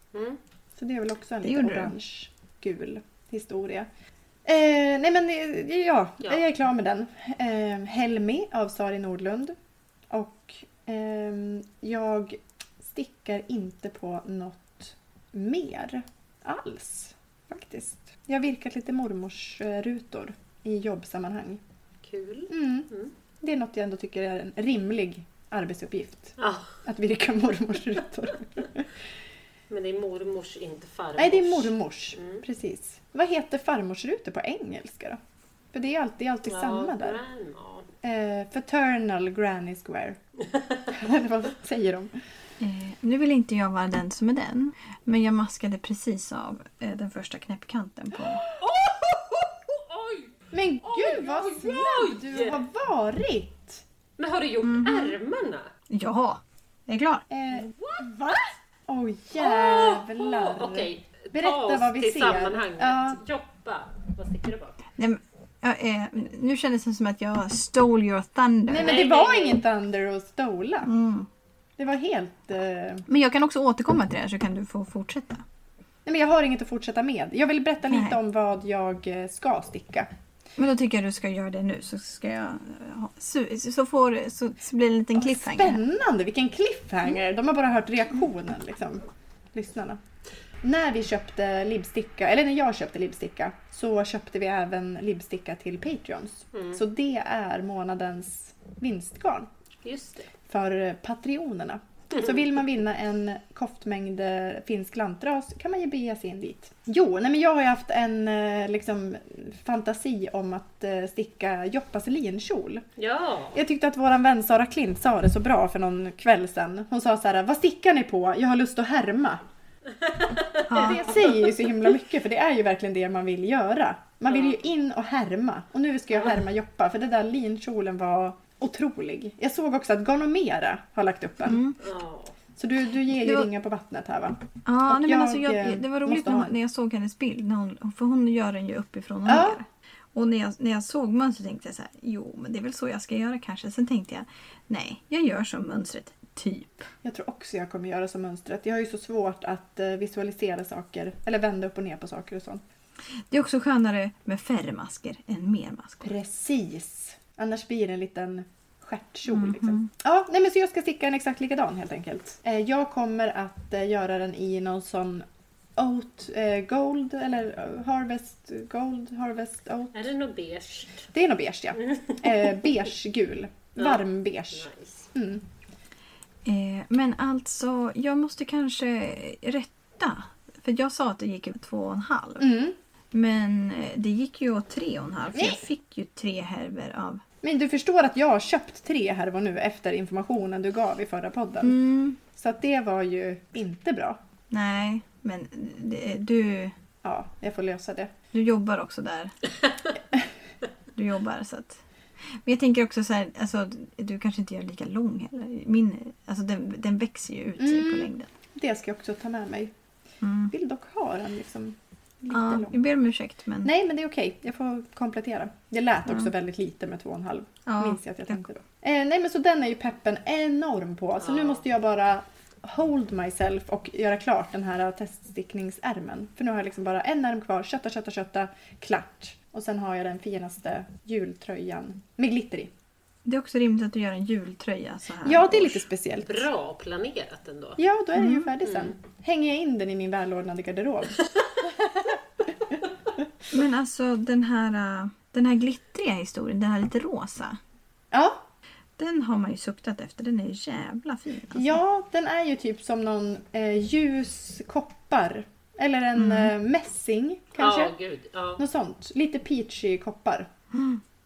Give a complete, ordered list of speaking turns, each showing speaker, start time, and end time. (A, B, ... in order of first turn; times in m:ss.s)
0:00.1-0:00.4 A
0:00.8-0:03.9 B
0:01.4-0:01.9 C
0:04.4-0:09.5 B
0:10.1-0:21.6 B
0:22.0-0:23.1 A
0:22.5-0:22.9 B
0:23.4-0:28.9 B
0:26.4-0:26.8 A
0:29.7-0:32.4 A
0:31.2-0:35.2 B
0:35.7-0:37.2 B
0:36.4-0:37.9 A
0:38.0-0:40.2 B
0:40.4-0:40.9 A
0:40.9-0:42.1 B
0:42.6-0:48.4 C
0:48.5-0:52.6 A
0:50.5-0:53.8 B
0:54.2-0:55.7 A
0:54.6-0:55.2 C
0:55.9-0:57.2 C
0:57.3-1:03.2 B
0:57.5-0:58.1 A
0:59.4-1:04.8 A
1:05.0-1:08.9 C
1:08.7-1:10.9 B
1:08.8-1:09.6 A
1:10.8-1:11.3 C
1:11.8-1:13.0 B
1:13.1-1:15.4 C
1:16.0-1:20.1 B
1:17.9-1:18.2 C
1:20.6-1:25.8 C
1:25.1-1:30.0 B
1:30.6-1:39.5 B
1:36.5-1:36.8 A
1:39.8-1:40.3 A
1:40.5-1:52.8 B
1:42.1-1:42.4 A
1:53.0-1:53.6 A
1:53.5-1:59.4 B
2:00.0-2:01.7 A
2:00.7-2:01.0 C
2:00.7-2:11.6 B
2:04.3-2:04.6 A
2:11.4-2:11.8 C
2:11.8-2:12.4 A
2:12.6-2:16.5 B
2:13.2-2:13.5 C
2:14.6-2:26.9 C
2:19.2-2:19.6 B
2:27.0-2:32.6 B
2:33.3-2:36.1 C
2:36.0-2:45.2 B
2:39.3-2:39.9 C
2:45.8-2:50.0 B
2:49.9-2:51.1 A
2:51.1-2:55.4 B
2:51.8-2:52.6 A
2:53.8-2:55.1 A
2:56.4-3:02.5 C
3:02.4-3:02.7 B
3:03.1-3:07.2 C
3:05.3-3:05.6 B
3:07.4-3:11.8 B
3:11.6-3:12.2 C
3:12.3-3:14.2 B
3:14.5-3:16.7 C
3:17.0-3:18.1 B
3:18.3-3:19.3 C
3:20.9-3:21.8 C
3:22.4-3:28.3 C
3:27.6-3:29.7 B
3:30.2-3:30.5 C
3:30.5-3:32.8 B
3:32.3-3:33.7 C
3:33.6-3:52.7 B
3:37.7-3:38.4 C
3:41.2-3:41.6 A
3:53.2-3:55.8 C
3:55.2-3:56.5 B
3:56.2-3:57.8 A
3:57.8-4:02.8 B
3:58.1-3:58.5 C
3:58.6-3:59.0 A
4:03.5-4:07.6 C
4:08.1-4:08.4 B
4:09.0-4:11.8 C
4:11.5-4:17.9 B
4:16.1-4:16.5 C
4:17.6-4:18.6 A
4:18.6-4:20.5 B
4:20.7-4:21.0 C